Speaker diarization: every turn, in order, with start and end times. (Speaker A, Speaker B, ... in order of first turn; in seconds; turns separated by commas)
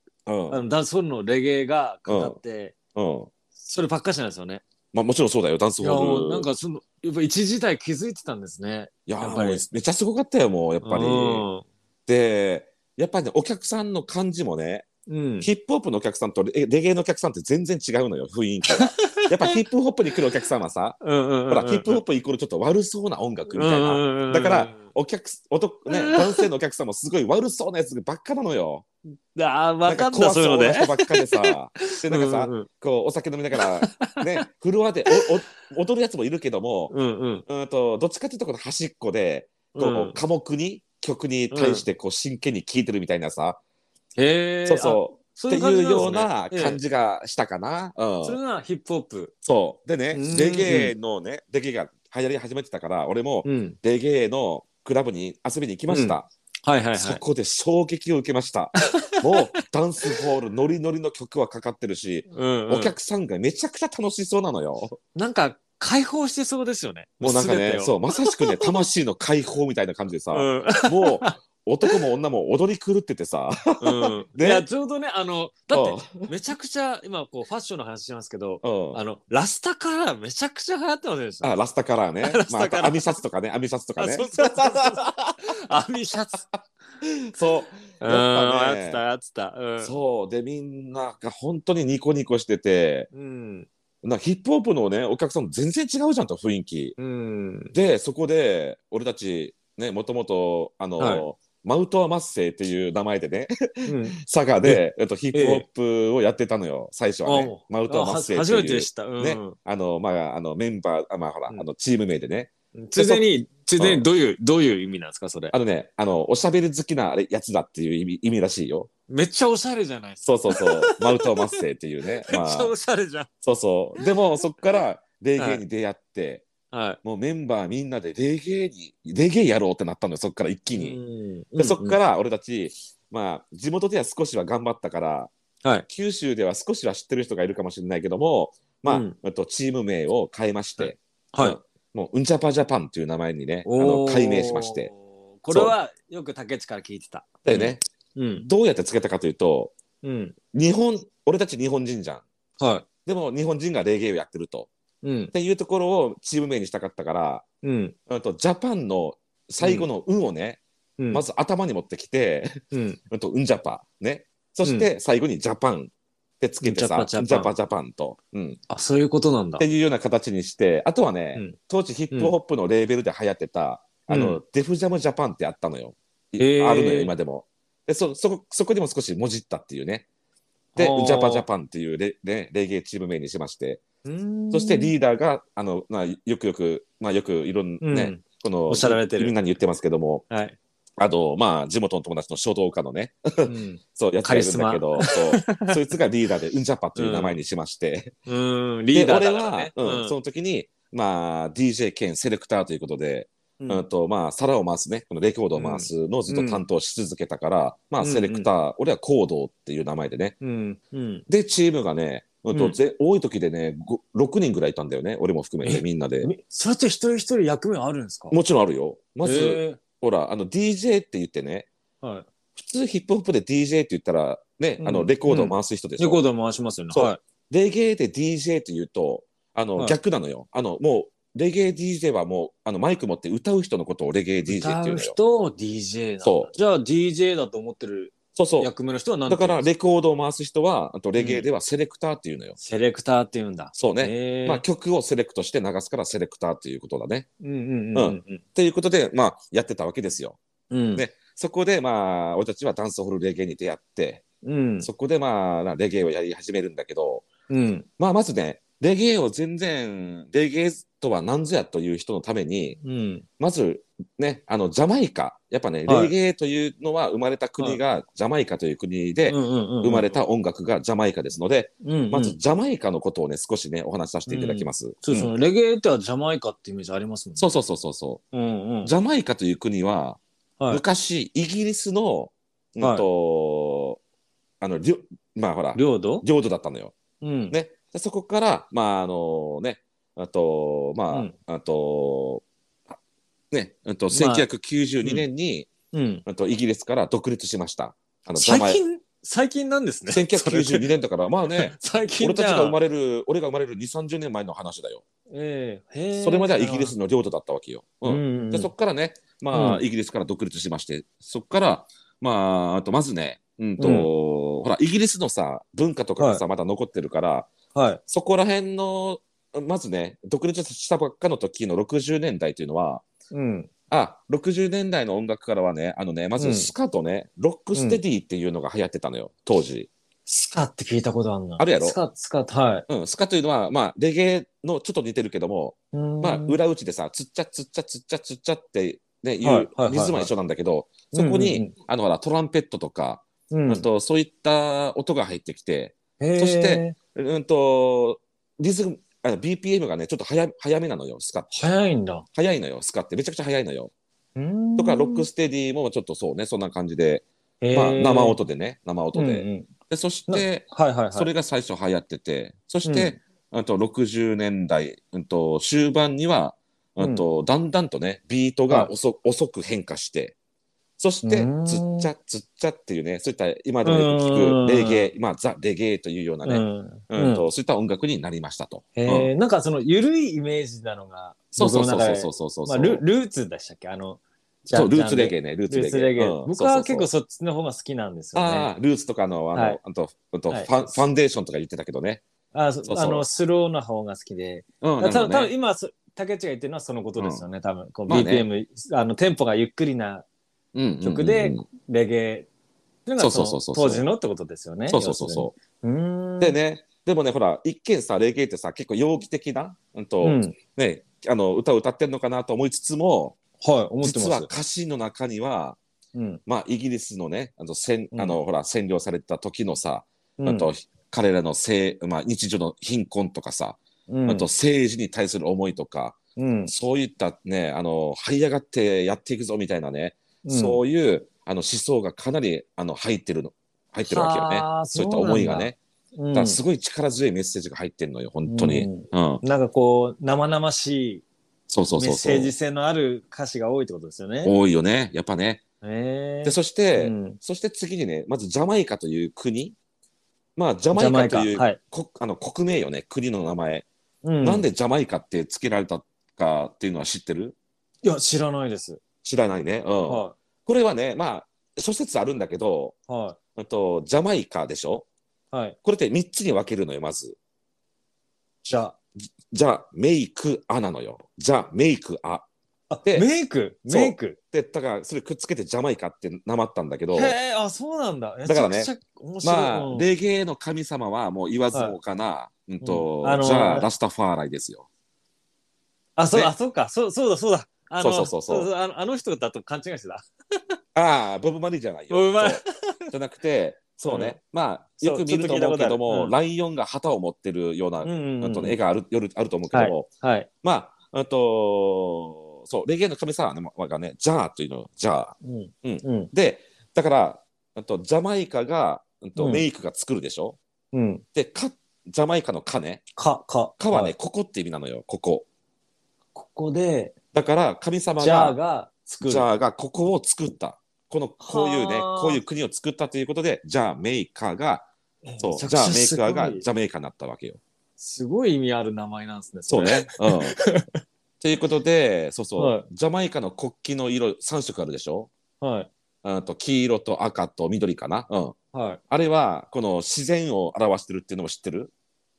Speaker A: 0.3-0.6, Speaker B: 0.5-2.7, Speaker A: 2.1-2.4, Speaker A: 3.0-3.3, Speaker B: 3.6-4.6, Speaker A: 4.9-6.5, Speaker B: 5.8-9.6, Speaker A: 9.1-11.5, Speaker B: 10.8-11.7, Speaker A: 12.1-14.9, Speaker B: 15.1-15.5, Speaker A: 15.4-21.0, Speaker B: 18.7-19.6, Speaker B: 21.0-22.0, Speaker A: 21.5-28.9, Speaker B: 23.5-24.8, Speaker B: 25.9-26.5, Speaker B: 29.3-32.7, Speaker A: 29.9-36.9, Speaker B: 33.6-34.4, Speaker B: 36.9-37.5, Speaker A: 37.5-43.6, Speaker B: 39.8-40.2, Speaker B: 41.5-41.9, Speaker B: 44.2-46.8, Speaker A: 44.6-48.4, Speaker B: 48.2-49.3, Speaker A: 49.4-56.3, Speaker B: 50.1-50.9, Speaker B: 53.4-53.8, Speaker B: 55.9-57.2, Speaker A: 57.0-65.0, Speaker B: 59.0-59.6, Speaker B: 62.3-63.0, Speaker B: 65.2-68.8, Speaker A: 67.2-74.7, Speaker B: 70.3-71.3, Speaker B: 73.8-81.5, Speaker A: 75.7-76.3, Speaker A: 78.6-79.0, Speaker A: 81.4-85.2, Speaker B: 82.2-83.2, Speaker B: 84.0-86.5, Speaker A: 86.5-89.0, Speaker B: 88.0-89.9, Speaker A: 89.8-93.1, Speaker B: 93.1-93.7, Speaker A: 94.0-97.0, Speaker B: 97.0-97.8, Speaker A: 97.7-113.3, Speaker B: 101.0-101.3, Speaker B: 103.8-105.6, Speaker B: 107.2-109.6, Speaker B: 112.8-115.5, Speaker A: 113.8-114.1, Speaker A: 115.5-118.9, Speaker B: 119.1-121.6, Speaker A: 120.2-122.7, Speaker B: 122.3-123.3, Speaker A: 123.4-126.5, Speaker B: 125.4-125.6, Speaker B: 126.7-127.0, Speaker A: 127.0-131.0, Speaker B: 130.7-132.0, Speaker A: 131.6-135.3, Speaker A: 135.9-144.9, Speaker B: 138.8-139.2, Speaker B: 140.8-141.6, Speaker B: 143.7-148.5, Speaker A: 147.4-147.8, Speaker A: 148.4-149.7, Speaker B: 150.0-150.3, Speaker A: 150.5-152.2, Speaker B: 152.6-152.9, Speaker A: 153.1-154.7, Speaker B: 155.0-155.3, Speaker A: 155.3-157.4, Speaker B: 157.6-157.9, Speaker A: 158.1-160.6, Speaker B: 159.6-159.9, Speaker B: 161.0-161.2, Speaker A: 161.1-162.6, Speaker B: 162.7-163.0, Speaker A: 163.1-168.6, Speaker B: 164.6-164.9, Speaker B: 166.6-167.5, Speaker B: 168.7-169.7, Speaker A: 169.6-180.1, Speaker B: 174.1-174.4, Speaker B: 176.4-177.1, Speaker B: 180.8-181.5, Speaker A: 180.8-183.8, Speaker B: 184.0-184.9, Speaker A: 184.5-190.2, Speaker B: 187.8-189.3, Speaker B: 190.3-190.6, Speaker A: 191.0-198.2, Speaker B: 193.4-195.8, Speaker B: 196.9-197.4, Speaker B: 198.3-200.2, Speaker A: 198.9-210.3, Speaker B: 203.6-203.8, Speaker B: 205.6-206.6, Speaker B: 208.0-208.5, Speaker B: 210.4-211.3, Speaker A: 211.3-216.3, Speaker B: 212.5-212.8, Speaker B: 215.6-218.4, Speaker A: 218.3-221.7, Speaker B: 219.2-219.8, Speaker B: 222.0-222.3, Speaker A: 222.6-226.2, Speaker B: 224.8-227.2, Speaker A: 226.9-235.2, Speaker B: 234.5-239.7, Speaker A: 236.2-236.5, Speaker A: 238.4-238.7, Speaker A: 239.3-242.6, Speaker B: 241.2-241.5, Speaker B: 242.6-244.6, Speaker A: 243.8-247.3, Speaker B: 247.4-248.4, Speaker A: 247.9-250.4, Speaker B: 250.7-251.1, Speaker A: 250.9-254.2, Speaker B: 254.4-254.9, Speaker A: 254.8-257.3, Speaker B: 257.5-257.9, Speaker A: 258.0-262.8, Speaker B: 262.8-263.2, Speaker A: 263.4-275.3, Speaker B: 265.9-266.1, Speaker B: 269.3-270.1, Speaker B: 271.8-272.4, Speaker B: 274.3-277.5, Speaker A: 277.4-278.2, Speaker B: 278.3-278.9, Speaker A: 278.8-280.2, Speaker A: 280.7-284.0, Speaker B: 282.8-283.1, Speaker A: 284.6-286.9, Speaker B: 285.8-286.3, Speaker B: 287.2-287.6, Speaker A: 287.5-292.9, Speaker A: 293.5-295.7, Speaker B: 294.1-294.5, Speaker B: 295.9-296.2, Speaker A: 296.2-298.8, Speaker B: 298.4-300.9, Speaker A: 300.1-305.0, Speaker B: 301.5-302.8, Speaker B: 305.3-307.0, Speaker A: 306.2-317.5, Speaker B: 308.1-308.7, Speaker B: 309.5-309.8, Speaker B: 313.8-314.1, Speaker B: 317.7-318.0, Speaker A: 318.1-323.0, Speaker B: 323.3-323.7, Speaker A: 323.9-329.9, Speaker B: 326.4-326.7, Speaker B: 327.7-328.0, Speaker B: 330.3-332.9, Speaker A: 331.6-332.0, Speaker A: 332.9-351.5, Speaker B: 335.9-336.6, Speaker B: 339.4-340.3, Speaker B: 341.1-341.7, Speaker B: 343.5-343.9, Speaker B: 346.2-347.0, Speaker B: 351.5-352.3, Speaker A: 352.3-353.9, Speaker B: 354.4-355.3, Speaker A: 354.8-370.4, Speaker B: 357.6-358.4, Speaker B: 359.1-359.7, Speaker B: 360.3-361.3, Speaker B: 362.9-363.2, Speaker B: 367.0-367.2, Speaker A: 371.0-379.3, Speaker B: 371.2-372.1, Speaker B: 373.8-375.1, Speaker B: 376.4-377.5, Speaker B: 378.9-388.7, Speaker A: 381.6-383.0, Speaker A: 384.7-387.1, Speaker A: 388.4-392.2, Speaker B: 389.5-389.8, Speaker B: 390.5-391.0, Speaker B: 392.5-400.2, Speaker A: 392.9-393.3, Speaker A: 394.8-395.5, Speaker A: 397.2-397.4, Speaker A: 398.1-398.5, Speaker A: 400.7-401.6, Speaker B: 401.0-402.5, Speaker B: 403.1-406.6, Speaker A: 403.2-404.1, Speaker A: 404.9-405.5, Speaker A: 406.4-413.4, Speaker B: 410.2-410.6, Speaker B: 413.6-414.5, Speaker A: 414.0-415.8, Speaker B: 416.1-416.4, Speaker A: 416.5-435.8, Speaker B: 418.1-418.4, Speaker B: 420.4-420.7, Speaker B: 424.1-424.5, Speaker B: 426.4-426.7, Speaker B: 430.4-430.8, Speaker B: 434.1-436.6, Speaker A: 436.3-439.4, Speaker B: 438.5-441.2, Speaker A: 441.7-442.5, Speaker B: 442.0-444.6, Speaker A: 444.4-445.6, Speaker B: 445.8-447.4, Speaker A: 446.4-449.8, Speaker A: 450.6-453.9, Speaker B: 450.9-451.8, Speaker B: 454.2-454.7, Speaker A: 454.4-457.6, Speaker B: 458.0-459.0, Speaker A: 459.2-463.0, Speaker B: 460.0-460.4, Speaker B: 463.1-463.4, Speaker A: 463.6-465.1, Speaker B: 465.5-465.8, Speaker A: 465.8-467.4, Speaker B: 468.6-469.0, Speaker A: 469.2-472.5, Speaker B: 472.9-474.4, Speaker A: 473.9-477.4, Speaker B: 477.1-480.1, Speaker A: 478.4-478.9, Speaker A: 479.4-484.9, Speaker B: 482.8-483.9, Speaker B: 486.2-490.3, Speaker A: 488.0-488.7, Speaker A: 490.9-500.1, Speaker B: 492.1-493.1, Speaker B: 494.1-494.4, Speaker B: 495.0-496.4, Speaker B: 498.0-498.8, Speaker B: 499.7-500.5, Speaker A: 500.6-510.6, Speaker B: 505.4-506.3, Speaker B: 509.4-509.6, Speaker B: 510.9-511.2, Speaker A: 511.4-513.0, Speaker B: 513.2-514.1, Speaker A: 513.8-515.5, Speaker B: 516.4-517.1, Speaker A: 517.3-518.6, Speaker B: 518.2-519.5, Speaker A: 519.2-524.9, Speaker B: 521.4-522.4, Speaker B: 525.2-526.7, Speaker A: 525.4-527.6, Speaker B: 528.0-530.9, Speaker A: 529.7-530.6, Speaker A: 531.4-535.3, Speaker B: 532.6-532.9, Speaker B: 535.6-535.9, Speaker A: 536.2-538.6, Speaker B: 538.7-539.0, Speaker A: 539.1-541.9